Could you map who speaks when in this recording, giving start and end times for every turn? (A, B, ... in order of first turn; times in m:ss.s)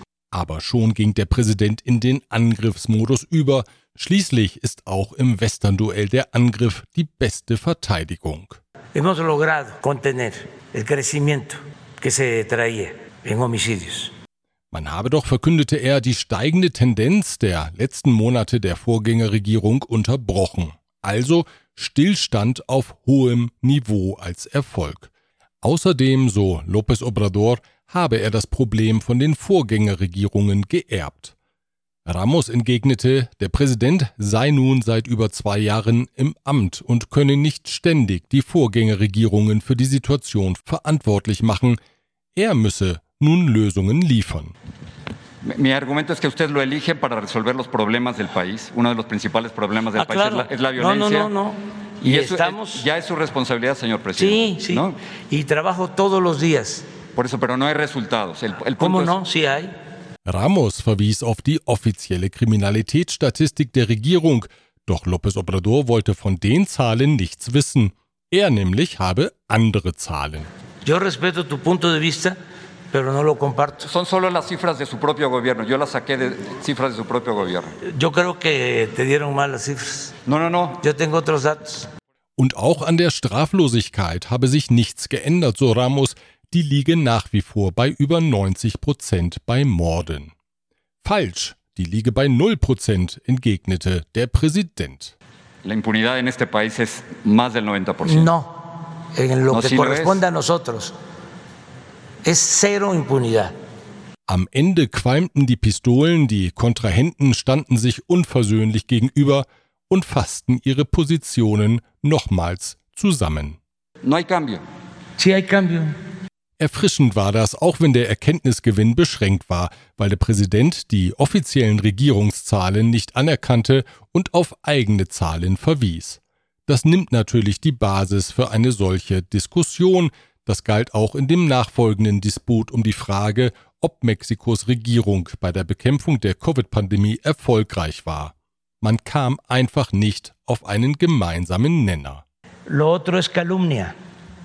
0:00.3-0:08.6 A
0:08.9-0:14.1 B
0:14.7-0:25.1 A
0:25.6-0:31.3 A
0:32.1-0:41.8 A
0:42.4-0:44.5 A
0:45.4-0:51.3 C
0:49.9-0:52.8 B
0:52.0-0:54.9 C
0:54.2-0:56.8 B
0:57.2-0:59.1 C
0:58.8-0:59.7 B
1:00.2-1:10.5 A
1:10.8-1:12.4 B
1:12.9-1:13.9 B
1:13.8-1:17.8 C
1:17.8-1:20.1 B
1:20.2-1:20.8 C
1:20.8-1:21.9 B
1:22.4-1:30.3 A
1:31.0-1:35.2 A
1:35.6-1:38.3 C
1:38.0-1:40.9 B
1:39.5-1:40.2 C
1:42.2-1:43.5 B
1:44.3-1:53.6 A
1:54.0-1:54.6 C
1:55.2-1:55.9 B
1:56.6-2:22.2 A
2:22.7-2:23.9 B